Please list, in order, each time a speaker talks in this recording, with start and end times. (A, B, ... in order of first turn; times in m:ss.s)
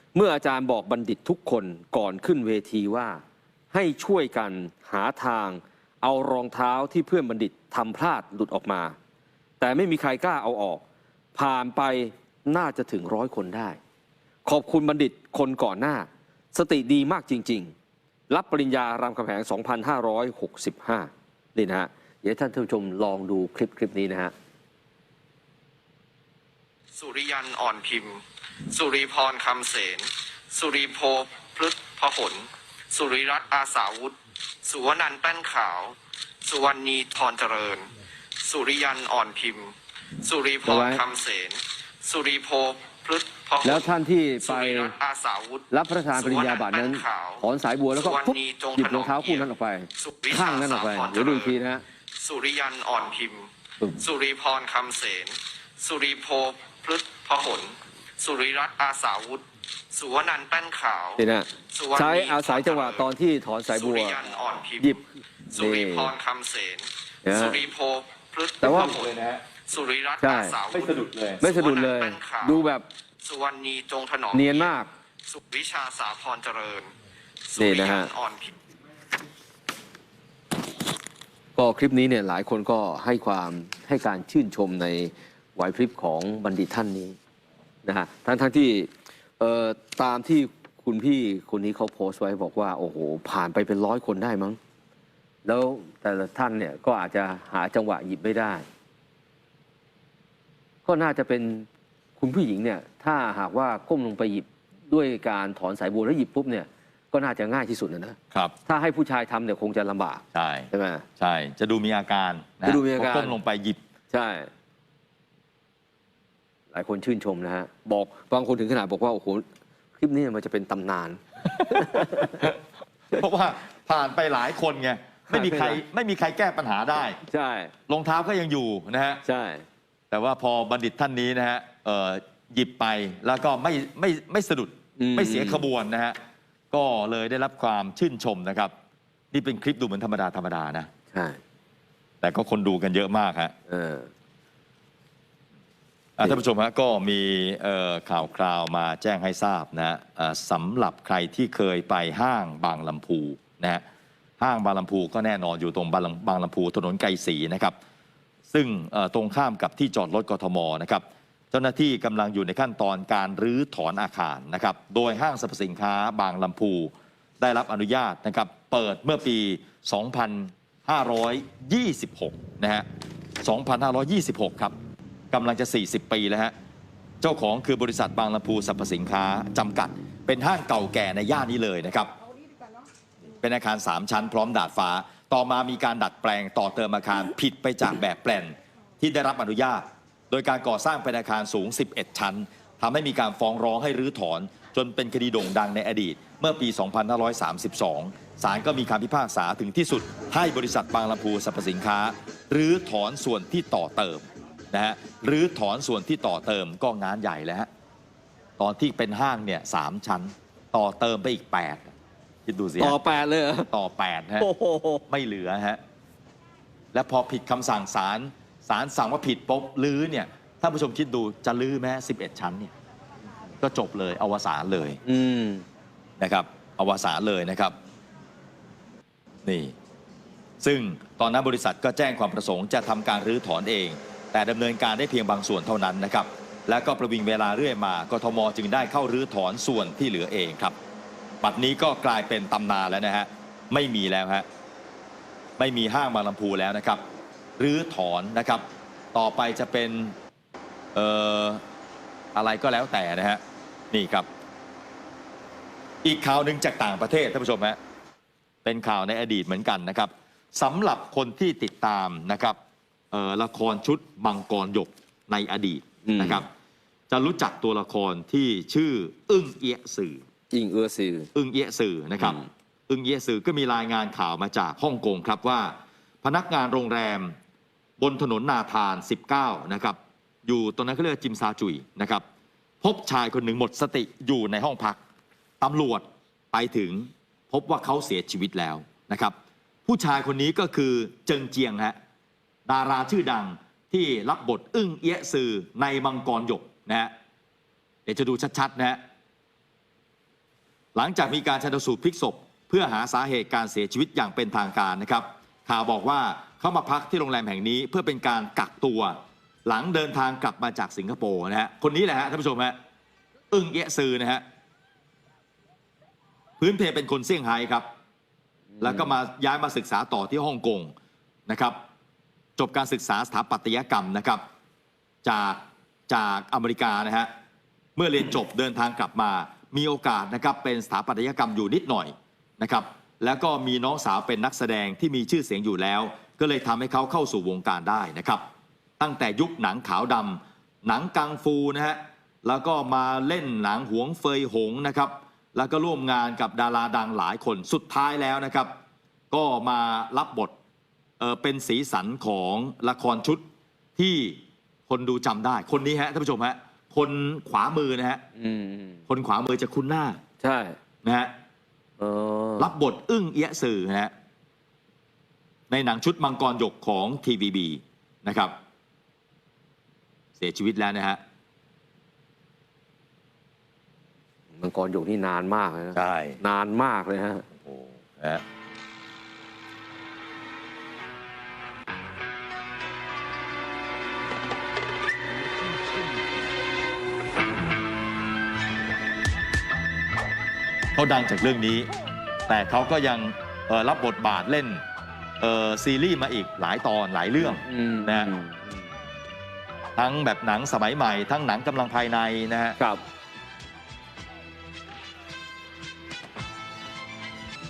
0:00.1-0:03.2 A
0:03.7-0:09.0 A
0:09.6-0:10.8 A
0:11.4-0:13.8 A
0:14.4-0:17.7 A
0:18.3-0:24.3 A
0:26.9-0:51.5 B
0:40.7-0:41.0 A
0:43.6-0:44.9 A
0:45.7-0:51.8 A
0:52.2-1:03.1 B
1:01.2-1:04.2 A
1:03.7-1:05.0 B
1:05.5-1:09.1 B
1:05.5-1:06.1 A
1:07.2-1:07.6 A
1:08.6-1:09.0 A
1:08.6-1:09.4 C
1:09.7-1:12.7 B
1:10.2-1:10.6 A
1:10.7-1:11.4 C
1:11.4-1:12.9 A
1:13.2-1:14.8 B
1:14.3-1:14.9 A
1:15.3-1:16.9 B
1:17.5-1:18.5 B
1:17.6-1:18.1 A
1:21.6-1:27.2 A
1:27.8-1:34.6 A
1:35.4-1:38.6 A
1:40.8-1:41.7 A
1:42.2-1:51.0 A
1:50.3-1:53.8 C
1:52.6-1:53.4 A
1:54.1-1:54.5 A
1:56.7-1:59.5 A
2:00.0-2:02.5 A
2:01.7-2:02.6 C
2:03.1-2:07.2 C
2:05.3-2:05.8 A
2:07.2-2:07.7 A
2:07.9-2:09.2 C
2:09.2-2:09.6 A
2:10.1-2:16.2 C
2:15.0-2:15.7 A
2:16.7-2:18.7 C
2:19.3-2:20.9 C
2:21.1-2:21.4 A
2:22.2-2:23.5 C
2:23.7-2:24.1 A
2:26.2-2:33.8 C
2:34.4-2:37.8 C
2:38.5-2:52.8 C
2:53.4-2:54.8 C
2:55.3-2:56.5 C
2:57.2-3:02.1 C
3:03.3-3:27.7 C
3:28.6-3:31.9 C
3:32.5-3:33.0 C
3:32.8-3:33.7 A
3:33.7-3:34.5 C
3:34.4-3:35.0 A
3:35.1-3:35.8 C
3:36.9-3:42.7 C
3:43.6-3:45.0 C
3:45.0-3:45.7 A
3:46.2-3:47.8 C
3:49.4-3:49.8 C
3:50.6-4:00.8 C
4:01.4-4:04.5 C
4:05.6-4:07.0 C
4:07.6-4:10.2 C
4:11.0-4:11.6 C
4:12.4-4:14.3 C
4:16.0-4:17.8 C
4:18.6-4:22.6 C
4:23.1-4:26.5 C
4:26.0-4:26.4 A
4:27.1-4:30.2 C
4:30.5-4:31.3 A
4:31.4-4:37.4 C
4:32.2-4:32.5 A
4:38.0-4:42.2 C
4:42.8-4:45.0 C
4:45.6-4:49.4 C
4:49.9-4:52.0 C
4:52.7-4:57.1 C
4:58.1-4:59.0 C
5:01.0-5:12.8 C
5:13.5-5:14.4 C
5:16.6-5:17.9 C
5:18.8-5:19.1 A
5:18.8-5:20.9 C
5:21.5-5:21.8 C
5:22.6-5:24.4 C
5:25.2-5:27.3 C
5:28.0-5:38.4 C
5:39.0-5:48.7 C
5:49.3-5:50.5 C
5:51.2-5:53.4 C
5:54.0-5:58.2 C
5:58.4-5:59.0 A
5:59.1-6:00.2 C
6:00.4-6:00.8 A
6:01.0-6:01.3 C
6:02.0-6:02.7 A
6:02.6-6:04.1 C
6:05.7-6:08.6 C
6:10.4-6:11.2 C
6:14.6-6:17.4 A
6:16.0-6:16.4 C
6:17.6-6:18.4 C
6:31.0-6:31.9 C
6:32.5-6:34.8 C
6:35.4-6:38.3 C
6:37.4-6:38.8 A
6:40.0-6:42.8 C